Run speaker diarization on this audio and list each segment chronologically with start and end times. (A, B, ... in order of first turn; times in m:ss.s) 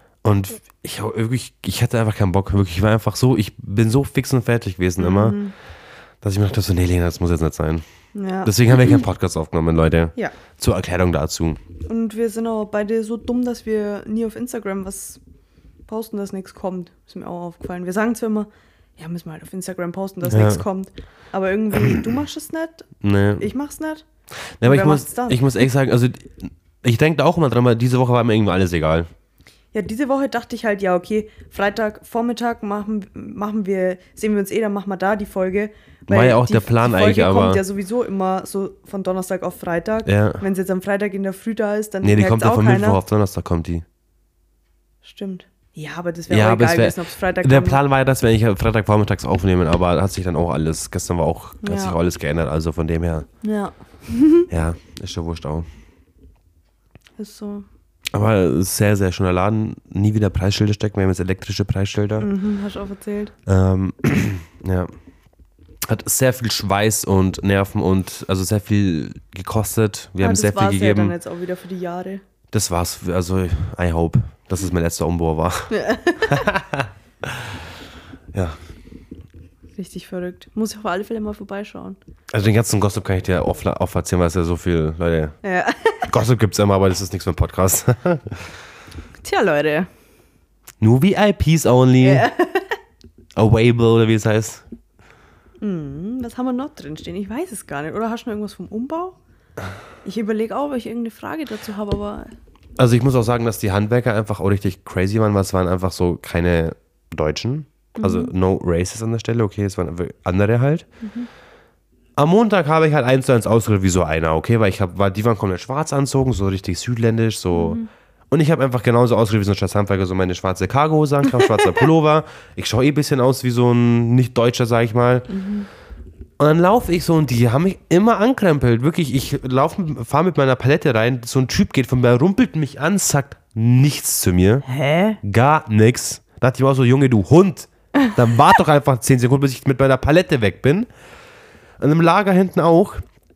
0:00.2-0:05.4 A
0:05.0-0:05.5 B
0:06.2-0:07.8 A
0:08.1-0:08.5 B
0:08.4-0:11.6 A
0:11.9-0:15.2 B
0:15.9-0:22.9 B
0:20.3-0:20.6 A
0:23.0-0:23.5 A
0:23.4-0:24.0 B
0:24.6-0:29.1 A
0:24.6-0:25.5 B
0:29.7-0:43.0 B
0:36.1-0:37.6 A
0:40.1-0:40.4 A
0:42.0-0:43.8 A
0:45.0-0:47.8 B
0:46.3-0:53.3 A
0:51.6-0:52.0 B
0:53.4-0:54.5 B
0:54.5-0:55.7 A
0:57.2-0:57.7 B
0:58.1-1:02.3 A
1:02.2-1:03.3 B
1:03.5-1:04.9 A
1:05.8-1:11.2 A
1:10.2-1:12.2 B
1:12.5-1:17.5 A
1:15.7-1:16.5 B
1:19.8-1:22.0 B
1:22.3-1:25.4 A
1:25.4-1:26.1 B
1:26.1-1:28.5 A
1:29.2-1:29.9 B
1:30.8-1:32.3 A
1:32.0-1:32.8 B
1:33.4-1:34.6 A
1:35.6-1:39.2 B
1:40.0-1:42.3 B
1:42.8-1:50.9 A
1:48.0-1:48.3 B
1:51.0-1:51.3 B
1:52.2-2:05.3 A
1:57.5-1:57.9 B
2:05.3-2:05.7 B
2:06.4-2:14.6 A
2:14.6-2:15.2 B
2:15.2-2:20.9 A
2:21.8-2:23.0 A